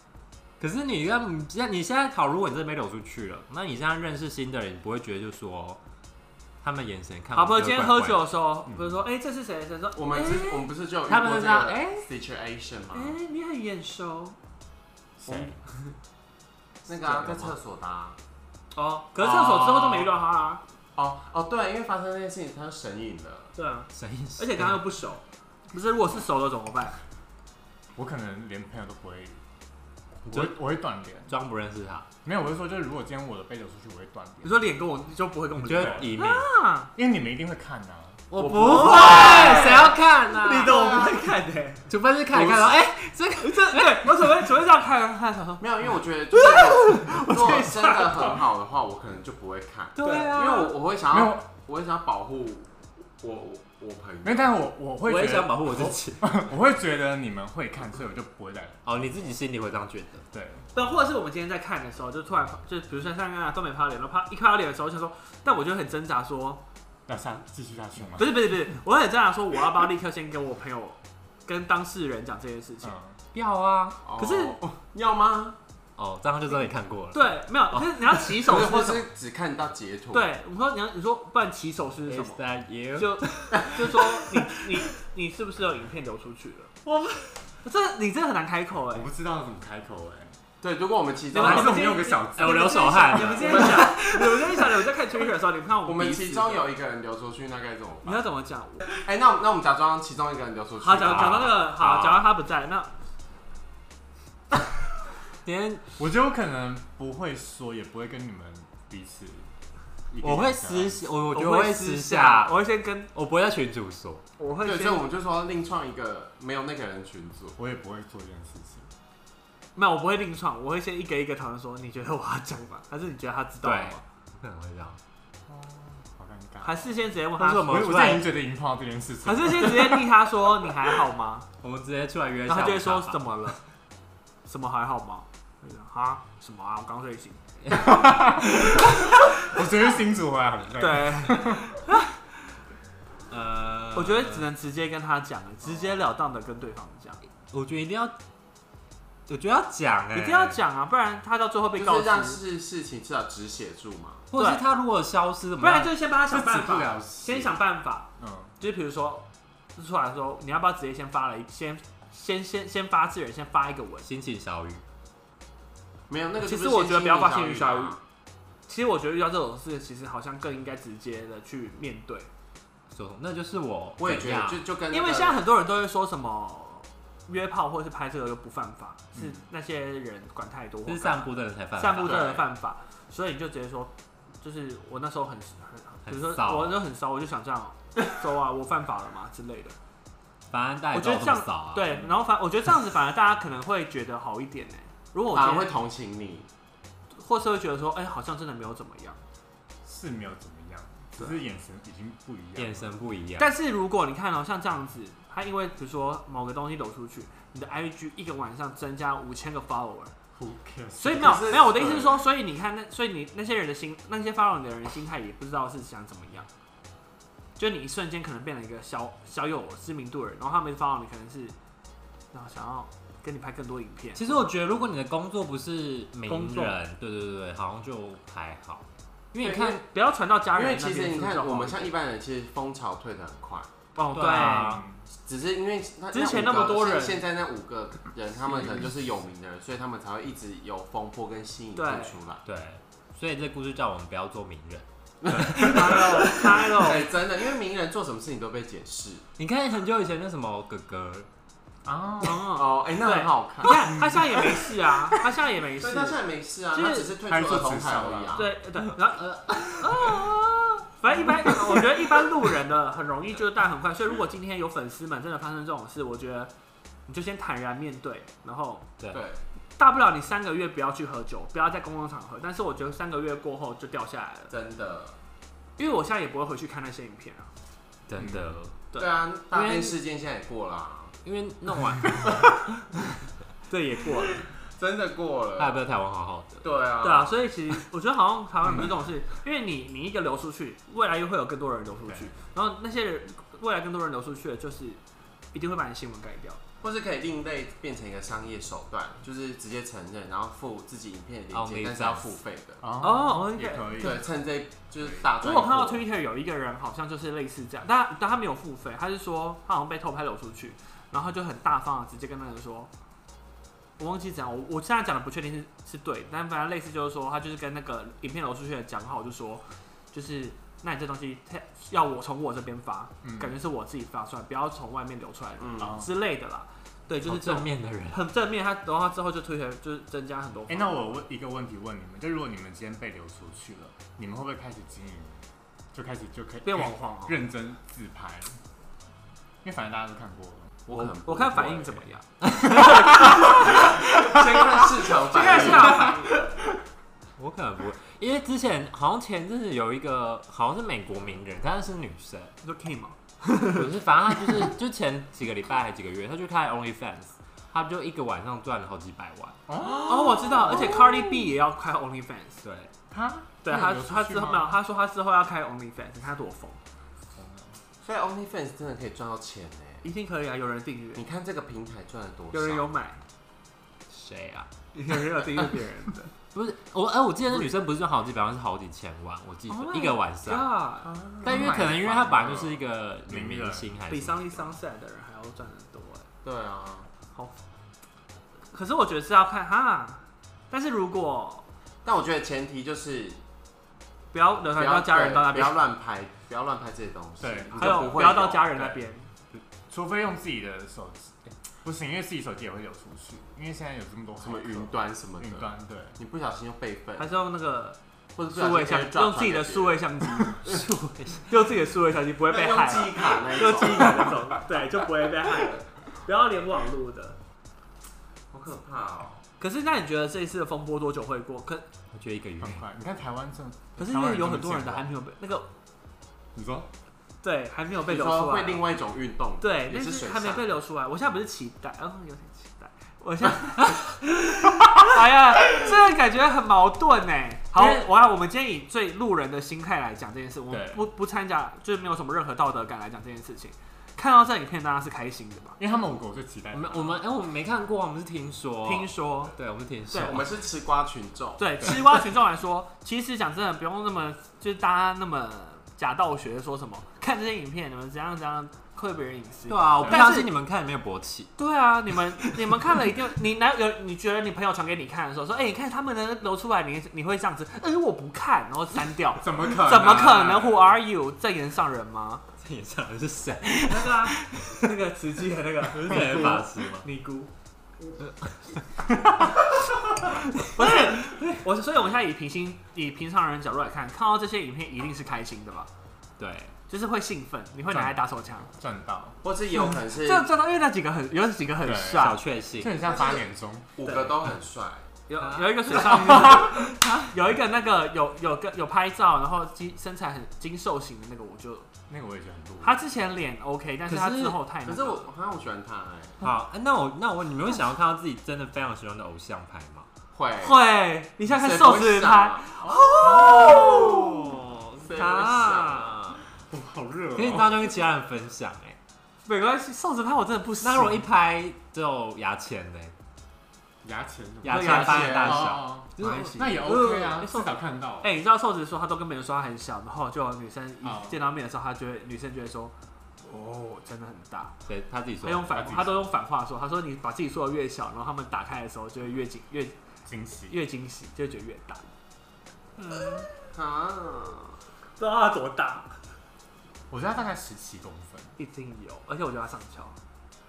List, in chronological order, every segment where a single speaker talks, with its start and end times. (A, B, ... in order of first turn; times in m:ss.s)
0:00.6-0:05.8 A
0:06.6-0:08.3 A
0:07.3-0:10.7 B
0:08.6-0:09.0 C
0:09.9-0:13.2 D
0:11.1-0:12.0 A
0:12.9-0:14.4 B
0:15.2-0:15.6 C
0:16.8-0:18.2 D
0:17.1-0:17.4 A
0:18.7-0:20.6 B
0:19.2-0:20.0 A
0:20.9-0:23.5 D
0:23.5-0:27.0 B
0:23.9-0:24.8 A
0:28.0-0:29.4 C
0:30.2-0:30.6 A
0:30.2-0:31.3 C
0:31.3-0:32.1 A
0:32.2-0:34.6 C
0:34.4-0:36.9 B
0:35.6-0:36.5 A
0:35.7-0:36.1 C
0:36.9-0:38.2 C
0:38.3-0:40.8 A
0:38.4-0:39.9 D
0:38.4-0:41.9 B
0:40.6-0:41.3 D
0:41.9-0:44.3 A
0:43.4-0:45.7 B
0:45.6-0:54.5 D
0:46.3-0:48.4 B
0:50.0-0:50.8 A
0:50.0-0:50.6 B
0:51.1-0:51.4 C
0:54.2-0:58.8 C
0:55.0-0:56.4 A
0:58.8-1:00.2 A
1:00.3-1:00.8 C
1:00.7-1:06.6 B
1:07.1-1:08.5 C
1:08.2-1:12.9 B
1:12.8-1:13.2 C
1:13.3-1:14.0 A
1:14.0-1:15.6 D
1:14.2-1:14.6 B
1:16.0-1:18.2 A
1:17.1-1:19.0 B
1:18.3-1:20.3 D
1:20.1-1:22.4 B
1:22.1-1:24.6 A
1:23.0-1:26.9 B
1:26.9-1:27.3 A
1:27.5-1:29.1 B
1:28.9-1:30.4 C
1:30.6-1:32.0 D
1:31.3-1:36.7 B
1:31.4-1:33.6 C
1:32.2-1:34.7 A
1:33.4-1:33.9 D
1:35.8-1:38.3 D
1:38.0-1:38.8 B
1:38.8-1:41.5 D
1:40.8-1:42.9 B
1:41.1-1:42.3 A
1:45.4-1:45.9 A
1:46.0-1:49.5 C
1:50.1-1:51.0 C
1:50.2-1:52.6 A
1:51.3-1:53.1 B
1:53.1-1:54.2 A
1:54.4-1:55.0 B
1:54.6-1:57.6 D
1:57.6-1:58.9 C
1:59.7-2:04.0 B
2:03.6-2:05.0 A
2:05.5-2:07.0 C
2:06.6-2:07.9 B
2:07.4-2:08.3 A
2:07.6-2:10.0 C
2:09.2-2:11.5 B
2:11.6-2:13.5 A
2:12.5-2:13.6 B
2:14.4-2:17.4 B
2:17.7-2:21.8 C
2:20.8-2:22.0 B
2:23.3-2:24.5 A
2:23.9-2:27.2 B
2:27.5-2:28.1 A
2:29.3-2:30.6 A
2:30.1-2:32.4 B
2:31.7-2:34.2 D
2:34.3-2:35.9 A
2:34.3-2:34.6 B
2:35.6-2:38.1 B
2:36.3-2:37.5 C
2:38.2-2:38.5 C
2:38.6-2:44.1 B
2:44.0-2:44.8 A
2:46.1-2:48.0 D
2:46.4-2:48.0 B
2:48.7-2:52.3 B
2:52.9-2:54.6 A
2:54.0-2:55.4 D
2:54.9-3:09.8 B
2:59.1-2:59.4 C
3:00.9-3:02.2 A
3:02.0-3:02.4 D
3:06.0-3:06.8 A
3:10.5-3:12.1 A
3:10.9-3:15.7 B
3:15.3-3:16.5 D
3:17.1-3:19.2 B
3:19.8-3:22.9 C
3:22.6-3:23.5 A
3:23.4-3:30.1 B
3:30.3-3:31.6 C
3:31.0-3:36.5 B
3:31.1-3:32.2 D
3:37.6-3:41.6 B
3:42.3-3:44.4 B
3:44.2-3:49.8 A
3:46.3-3:46.8 B
3:49.4-3:49.8 D
3:49.4-3:51.9 B
3:50.5-3:53.7 D
3:53.9-3:54.8 B
3:54.1-3:54.9 A
3:54.4-3:55.0 C
3:55.2-4:02.4 D
3:56.1-3:57.2 B
4:01.8-4:02.2 B
4:02.4-4:06.1 A
4:05.2-4:09.2 D
4:05.6-4:07.1 B
4:09.4-4:11.3 A
4:11.8-4:12.5 C
4:12.2-4:16.2 B
4:12.5-4:13.9 D
4:13.8-4:14.6 C
4:15.8-4:18.5 D
4:16.7-4:17.1 B
4:17.3-4:18.4 C
4:18.3-4:26.5 B
4:18.9-4:20.8 A
4:27.1-4:28.9 B
4:29.1-4:29.4 D
4:29.8-4:34.5 B
4:34.5-4:35.2 D
4:35.8-4:37.5 B
4:38.1-4:38.8 A
4:38.2-4:38.6 C
4:39.0-4:41.2 D
4:39.5-4:40.0 A
4:41.2-4:42.6 A
4:43.7-4:44.4 B
4:44.5-4:45.8 D
4:45.6-4:46.6 A
4:46.6-4:47.4 D
4:47.0-4:55.0 B
4:48.6-4:48.9 C
4:55.5-4:56.6 B
4:56.8-5:02.8 D
5:01.5-5:02.4 A
5:02.8-5:04.2 C
5:03.0-5:04.2 B
5:04.0-5:06.0 D
5:05.0-5:05.3 C
5:05.4-5:12.9 B
5:14.0-5:31.2 B
5:23.2-5:23.5 C
5:25.6-5:26.0 D
5:25.8-5:26.1 C
5:27.2-5:28.2 A
5:30.7-5:38.6 C
5:36.6-5:37.4 B
5:39.6-5:40.8 C
5:40.9-5:42.0 D
5:40.9-5:43.5 B
5:42.6-5:43.3 A
5:42.7-5:43.0 C
5:43.0-5:46.2 D
5:45.2-5:46.4 B
5:47.4-5:52.5 A
5:52.6-5:53.9 B
5:53.7-5:59.6 A
5:59.7-6:01.1 C
6:00.0-6:02.6 B
6:02.6-6:02.9 A
6:03.1-6:04.8 C
6:03.6-6:06.8 B
6:07.3-6:07.8 C
6:08.0-6:10.0 D
6:10.0-6:11.2 B
6:11.1-6:12.9 D
6:12.5-6:13.2 B
6:14.1-6:14.7 A
6:14.9-6:16.3 B
6:16.5-6:20.7 A
6:19.7-6:21.1 B
6:21.0-6:21.8 D
6:21.4-6:24.0 C
6:21.4-6:24.7 A
6:24.1-6:26.3 B
6:26.4-6:27.1 D
6:28.7-6:31.6 B
6:32.0-6:33.4 D
6:34.3-6:35.8 B
6:34.7-6:38.8 D
6:37.4-6:39.0 C
6:37.8-6:39.3 B
6:39.5-6:46.2 C
6:44.4-6:47.3 D
6:47.2-6:48.0 B
6:48.4-6:50.1 D
6:48.5-6:50.6 B
6:50.7-6:51.4 A
6:51.5-6:57.4 B
6:52.4-6:54.4 D
6:58.5-6:59.4 D
6:59.6-7:01.8 B
7:02.1-7:02.8 A
7:02.6-7:05.1 C
7:04.0-7:05.7 B
7:06.5-7:06.9 C
7:07.4-7:08.8 B
7:08.0-7:10.7 D
7:09.6-7:25.8 B
7:20.7-7:21.0 C
7:25.8-7:27.2 C
7:26.7-7:30.5 A
7:28.8-7:29.5 B
7:30.1-7:30.4 B
7:30.1-7:31.9 D
7:31.6-7:40.5 B
7:39.7-7:41.5 A
7:40.0-7:40.2 C
7:41.6-7:52.4 B
7:49.4-7:50.9 C
7:52.6-7:54.9 A
7:53.9-7:57.5 B
7:55.9-7:57.0 A
7:58.3-7:58.6 A
8:00.6-8:01.5 A
8:00.6-8:05.9 B
8:06.4-8:06.7 A
8:06.9-8:08.7 B
8:07.9-8:09.4 C
8:09.4-8:10.5 D
8:09.7-8:12.4 B
8:11.8-8:13.9 C
8:12.2-8:13.0 A
8:13.0-8:13.4 D
8:14.0-8:15.0 D
8:14.0-8:14.3 B
8:15.3-8:21.9 B
8:15.4-8:17.2 A
8:22.1-8:23.0 C
8:22.8-8:25.3 B
8:24.1-8:24.6 A
8:24.8-8:26.4 D
8:26.4-8:30.1 A
8:30.3-8:30.8 D
8:30.6-8:34.3 B
8:31.5-8:32.7 D
8:33.2-8:33.8 C
8:33.3-8:36.4 A
8:33.5-8:34.4 D
8:35.0-8:36.2 D
8:36.6-8:37.9 C
8:37.4-8:39.0 A
8:39.4-8:41.2 B
8:40.8-8:43.1 A
8:44.0-8:48.3 C
8:44.6-8:46.8 A
8:44.6-8:45.7 B
8:44.8-8:45.7 D
8:46.2-8:54.7 B
8:51.0-8:51.4 C
8:54.8-8:55.8 A
8:55.4-9:00.0 B
8:55.7-8:56.2 C
9:00.2-9:00.8 C
9:00.7-9:02.1 B
9:03.0-9:03.5 B
9:03.7-9:04.8 D
9:05.2-9:06.1 B
9:07.1-9:08.6 C
9:08.6-9:10.2 B